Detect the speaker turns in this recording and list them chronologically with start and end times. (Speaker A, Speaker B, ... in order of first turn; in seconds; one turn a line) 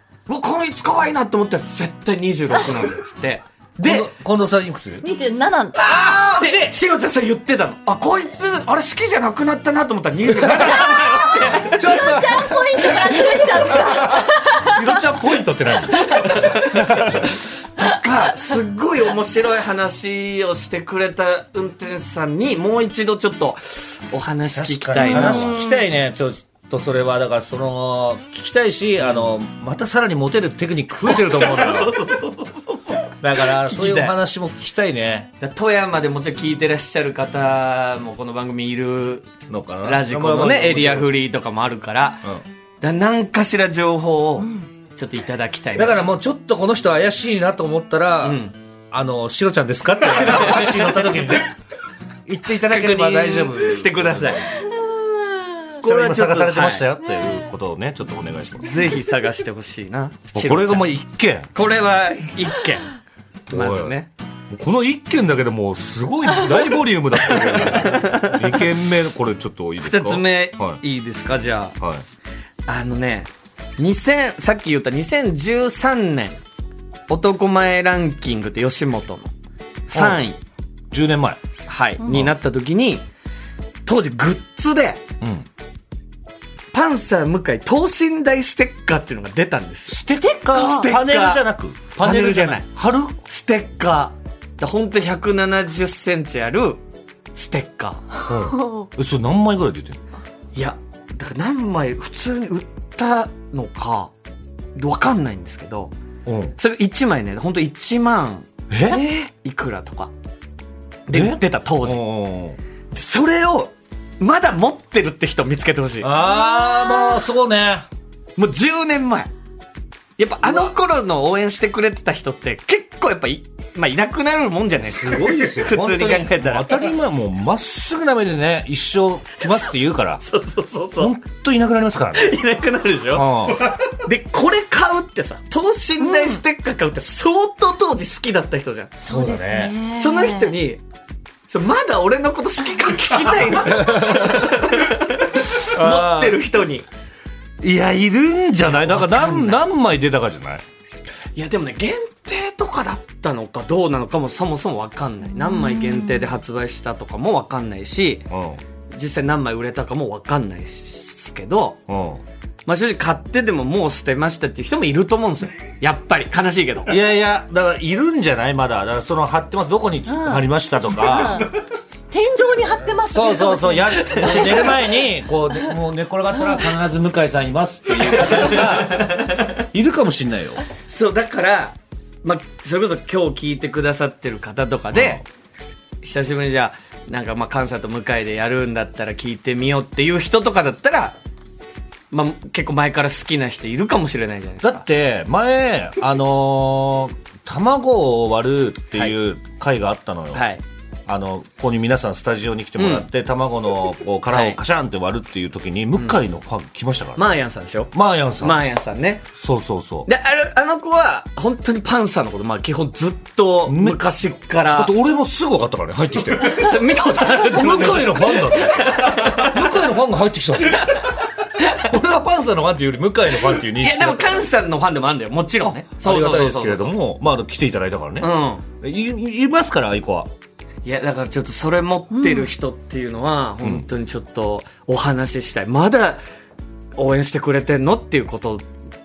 Speaker A: 0.3-4.1
Speaker B: 3.8-5.1
Speaker C: 5.0-5.8
Speaker A: 5.8-12.1
Speaker B: 5.8-6.7
Speaker B: 10.3-17.3
Speaker C: 11.6-15.0
Speaker A: 12.9-14.1
Speaker A: 15.9-25.6
Speaker B: 24.5-31.9
Speaker C: 25.0-25.8
Speaker A: 29.0-29.3
Speaker A: 31.1-34.1
Speaker B: 33.2-35.3
Speaker A: 35.4-39.3
Speaker B: 39.5-41.1
Speaker A: 39.8-42.3
Speaker A: 42.8-46.1
Speaker B: 45.8-48.4
Speaker A: 48.2-48.5
Speaker B: 48.9-51.5
Speaker A: 50.1-51.3
Speaker B: 52.3-54.4
Speaker A: 52.5-54.5
Speaker C: 55.0-55.5
Speaker A: 55.8-56.9
Speaker B: 55.8-58.8
Speaker A: 58.6-60.9
Speaker B: 60.3-61.5
Speaker A: 61.5-62.9
Speaker A: 63.5-64.1
Speaker B: 63.5-63.9
Speaker B: 64.5-70.8
Speaker A: 67.6-68.7
Speaker A: 69.8-71.8
Speaker B: 71.8-72.0
Speaker A: 72.7-76.4
Speaker A: 77.1-79.3
Speaker A: 79.9-80.4
Speaker B: 79.9-80.2
Speaker B: 80.9-81.4
Speaker A: 81.7-83.0
Speaker B: 82.0-82.3
Speaker A: 83.8-85.0
Speaker B: 85.2-85.5
Speaker A: 86.7-92.7
Speaker B: 89.9-93.1
Speaker A: 93.2-96.8
Speaker A: 97.3-98.2
Speaker B: 98.2-100.0
Speaker A: 100.5-104.1
Speaker A: 104.7-105.9
Speaker B: 106.2-106.5
Speaker A: 106.6-108.5
Speaker B: 108.7-109.0
Speaker C: 108.9-109.3
Speaker A: 109.1-110.1
Speaker A: 111.1-112.0
Speaker B: 111.1-112.6
Speaker A: 112.9-116.1
Speaker B: 116.0-117.8
Speaker C: 116.4-117.2
Speaker A: 118.3-119.3
Speaker A: 120.2-126.9
Speaker B: 124.8-130.2
Speaker A: 130.2-131.1
Speaker B: 131.0-132.3
Speaker A: 132.1-138.9
Speaker B: 133.1-133.8
Speaker C: 136.0-136.4
Speaker B: 139.0-139.7
Speaker C: 139.1-140.5
Speaker A: 139.9-140.8
Speaker A: 141.5-146.8
Speaker B: 143.6-144.6
Speaker B: 145.6-146.4
Speaker B: 147.6-150.6
Speaker A: 148.8-149.6
Speaker A: 151.3-158.3
Speaker C: 155.4-156.2
Speaker B: 158.3-158.6
Speaker A: 158.9-161.8
Speaker B: 161.9-162.2
Speaker A: 162.7-166.9
Speaker B: 166.9-171.5
Speaker C: 170.1-171.5
Speaker C: 172.1-174.6
Speaker B: 173.1-180.6
Speaker A: 174.1-174.8
Speaker A: 178.1-179.5
Speaker A: 180.8-185.2
Speaker B: 184.9-185.2
Speaker A: 186.0-191.1
Speaker A: 192.1-194.8
Speaker B: 194.6-200.4
Speaker A: 200.3-200.6
Speaker B: 201.1-207.3
Speaker A: 202.8-203.1
Speaker A: 204.3-204.6
Speaker A: 207.2-209.2
Speaker B: 207.9-208.6
Speaker B: 209.3-210.1
Speaker A: 210.1-214.9
Speaker B: 213.7-214.0
Speaker B: 214.7-216.7
Speaker A: 216.3-219.7
Speaker B: 217.5-221.1
Speaker B: 221.7-224.5
Speaker A: 223.6-226.9
Speaker B: 225.6-228.3
Speaker A: 228.2-228.7
Speaker B: 228.8-230.3
Speaker A: 230.8-236.2
Speaker C: 232.1-232.5
Speaker A: 236.9-238.7